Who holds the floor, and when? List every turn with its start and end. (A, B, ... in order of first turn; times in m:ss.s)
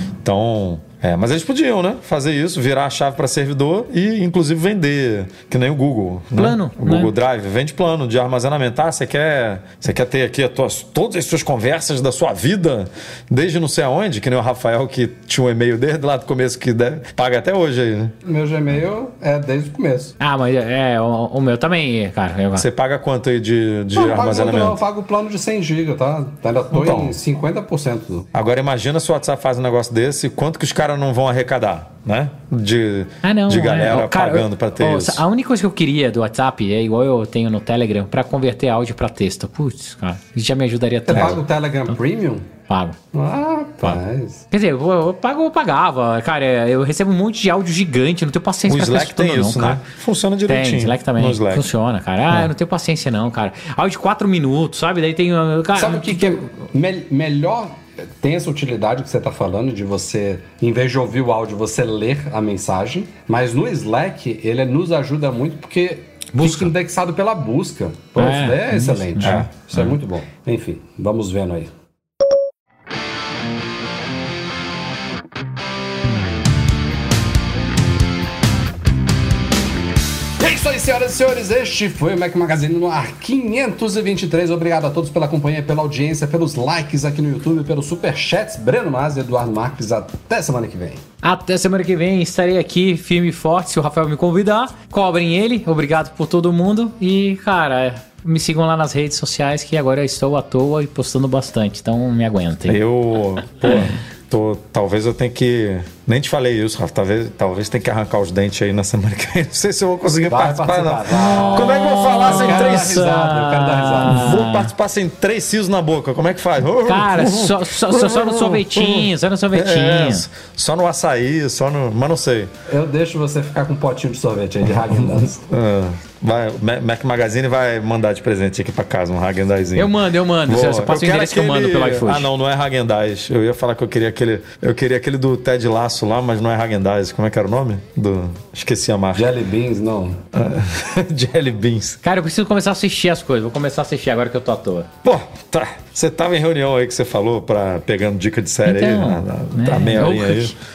0:00.2-0:18.1 A
0:06.4-0:07.1 B
0:18.2-0:20.2 C
0:20.2-0:22.6 B
0:22.5-0:24.8 A
0:23.9-0:28.3 C
0:26.7-0:27.2 A
0:28.3-0:35.2 A
0:33.2-0:41.4 B
0:41.1-0:42.4 C
0:41.1-0:41.4 A
0:42.7-0:43.0 B
0:43.1-0:44.4 C
0:44.5-0:49.8 B
0:48.7-0:51.7 A
0:50.5-0:56.4 B
0:55.8-1:11.7 C
1:06.3-1:06.7 B
1:08.2-1:09.9 B
1:09.2-1:09.5 A
1:20.4-1:31.0 C
1:31.2-1:42.8 B
1:42.6-1:53.0 A
1:43.6-1:43.9 B
1:50.2-1:54.4 C
1:51.1-1:54.7 B
1:54.1-2:02.5 A
1:56.8-2:00.2 B
2:02.7-2:05.4 C
2:04.9-2:09.9 A
2:09.8-2:12.3 B
2:10.4-2:19.4 A
2:19.1-2:20.2 C
2:20.3-2:22.0 A
2:22.0-2:24.9 B
2:25.0-2:30.6 A
2:28.6-2:30.5 B